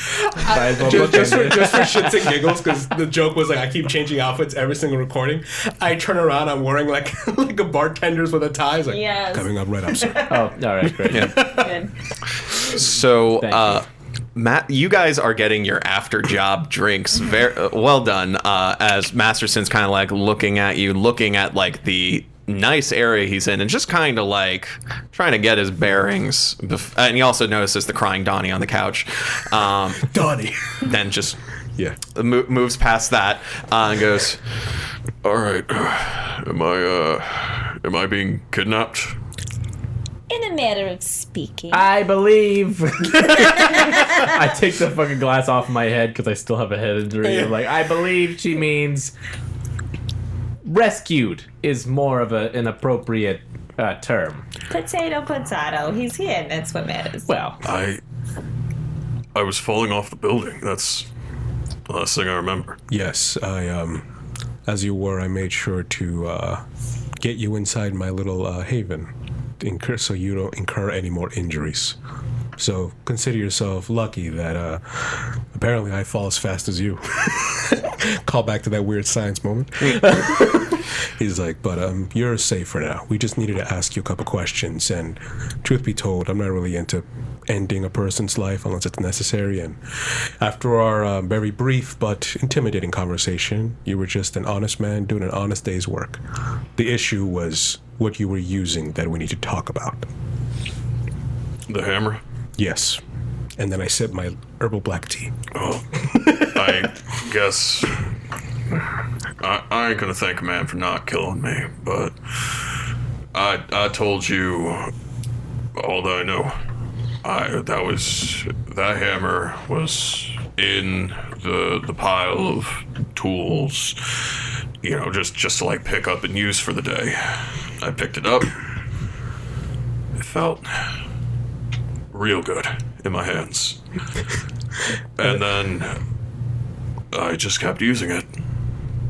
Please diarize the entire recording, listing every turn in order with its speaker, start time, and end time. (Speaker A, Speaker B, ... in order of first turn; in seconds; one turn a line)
Speaker A: 0.2-11.7
Speaker B: 0.4-2.5
Speaker C: 8.9-9.5
Speaker B: 10.2-11.6
Speaker D: 11.1-11.6
Speaker C: 11.4-11.9
Speaker D: 12.6-30.1
Speaker B: 13.4-13.8
Speaker A: 30.0-30.8
Speaker D: 30.8-31.4
Speaker D: 32.1-34.4
Speaker E: 35.2-39.2
Speaker C: 40.3-41.9
Speaker B: 41.7-49.1
Speaker B: 50.6-54.5
Speaker C: 54.7-57.3
Speaker B: 57.3-57.6
Speaker E: 57.6-58.0
Speaker E: 59.3-61.1
Speaker E: 61.9-62.8
Speaker A: 62.9-64.0
Speaker A: 64.7-66.6
Speaker A: 67.2-72.0
Speaker A: 72.6-89.8
Speaker A: 90.4-96.2
Speaker A: 96.8-100.1
Speaker E: 101.7-102.2
Speaker A: 102.6-103.0
Speaker A: 103.6-105.3
Speaker E: 105.5-108.0
Speaker E: 109.4-112.6
Speaker E: 113.3-114.9
Speaker E: 115.8-116.5
Speaker E: 117.2-124.3
Speaker E: 124.8-128.6
Speaker E: 130.2-130.9
Speaker E: 132.1-133.8
Speaker E: 135.2-136.0
Speaker E: 137.1-138.3